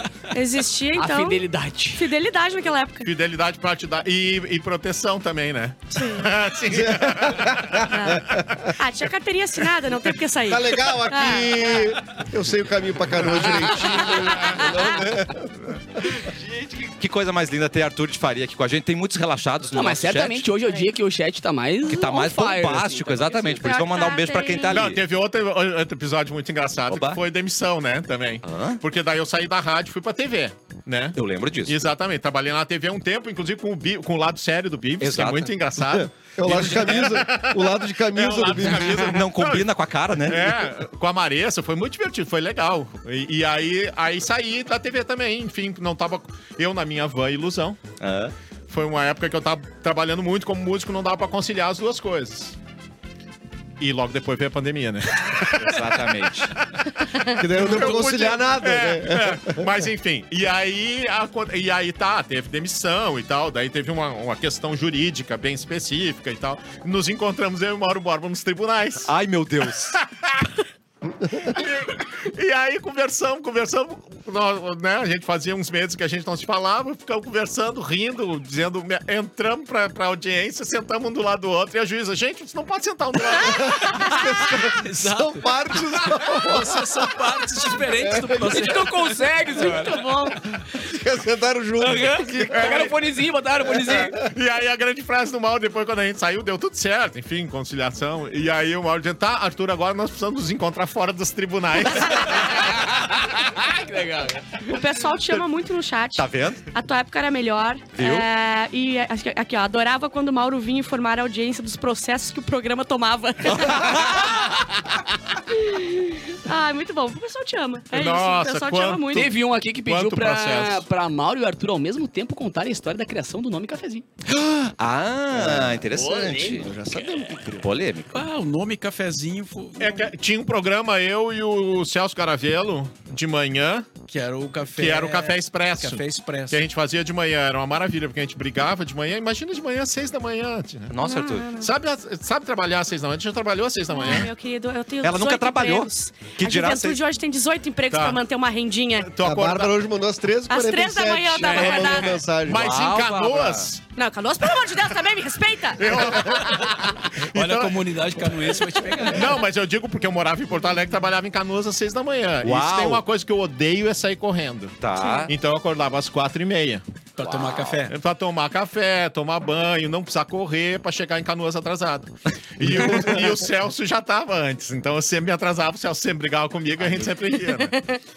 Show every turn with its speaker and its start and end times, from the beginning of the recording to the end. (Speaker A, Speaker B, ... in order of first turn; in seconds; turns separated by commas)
Speaker A: 0.3-1.4, Speaker B: 0.9-2.1, Speaker A: 1.9-3.1, Speaker C: 3.0-8.7, Speaker A: 5.9-6.3, Speaker D: 6.7-8.7, Speaker A: 7.9-12.0, Speaker D: 10.5-16.2, Speaker C: 13.2-14.7, Speaker A: 13.8-15.1, Speaker E: 16.2-20.5, Speaker B: 19.7-23.7, Speaker E: 21.9-25.0, Speaker A: 23.6-24.8, Speaker C: 24.7-47.8, Speaker E: 26.9-27.2, Speaker E: 28.4-28.8, Speaker E: 31.1-31.8, Speaker E: 35.0-35.5, Speaker D: 35.8-39.2, Speaker E: 38.9-40.6, Speaker E: 48.0-48.3, Speaker C: 48.7-52.5, Speaker C: 53.8-69.1, Speaker E: 55.5-56.6, Speaker D: 57.4-59.8, Speaker E: 69.0-70.0, Speaker C: 69.7-70.5, Speaker C: 71.4-84.2, Speaker D: 83.4-87.2, Speaker F: 84.6-90.0, Speaker D: 88.0-88.5, Speaker B: 88.3-90.6, Speaker D: 90.7-92.9, Speaker B: 91.8-94.2, Speaker C: 92.5-92.9, Speaker C: 94.0-102.9, Speaker B: 102.3-104.7, Speaker A: 104.6-114.6, Speaker E: 106.2-106.6, Speaker E: 108.0-108.3, Speaker E: 113.5-114.5, Speaker A: 115.4-119.3, Speaker C: 117.9-119.3, Speaker B: 119.1-124.0, Speaker C: 119.8-120.8, Speaker E: 124.3-126.7, Speaker D: 125.3-125.9, Speaker B: 125.9-127.4, Speaker D: 126.5-127.7, Speaker E: 127.4-128.2, Speaker F: 128.1-130.1, Speaker C: 129.8-133.9, Speaker F: 134.1-136.6, Speaker C: 134.7-140.9, Speaker E: 140.9-141.6, Speaker A: 141.0-141.7, Speaker C: 141.6-144.3, Speaker A: 143.9-149.1, Speaker E: 145.0-147.0, Speaker C: 147.9-148.2, Speaker C: 149.1-149.7, Speaker D: 149.2-152.8, Speaker A: 150.5-152.2, Speaker C: 151.4-153.8, Speaker E: 152.5-153.7, Speaker A: 153.9-156.3, Speaker C: 155.8-158.5, Speaker F: 157.2-159.4, Speaker C: 159.1-166.8, Speaker E: 162.4-163.0, Speaker E: 164.8-165.3, Speaker A: 164.9-165.3, Speaker F: 167.2-167.9, Speaker E: 167.2-167.8, Speaker C: 167.9-177.8, Speaker D: 172.6-173.3, Speaker A: 177.7-178.0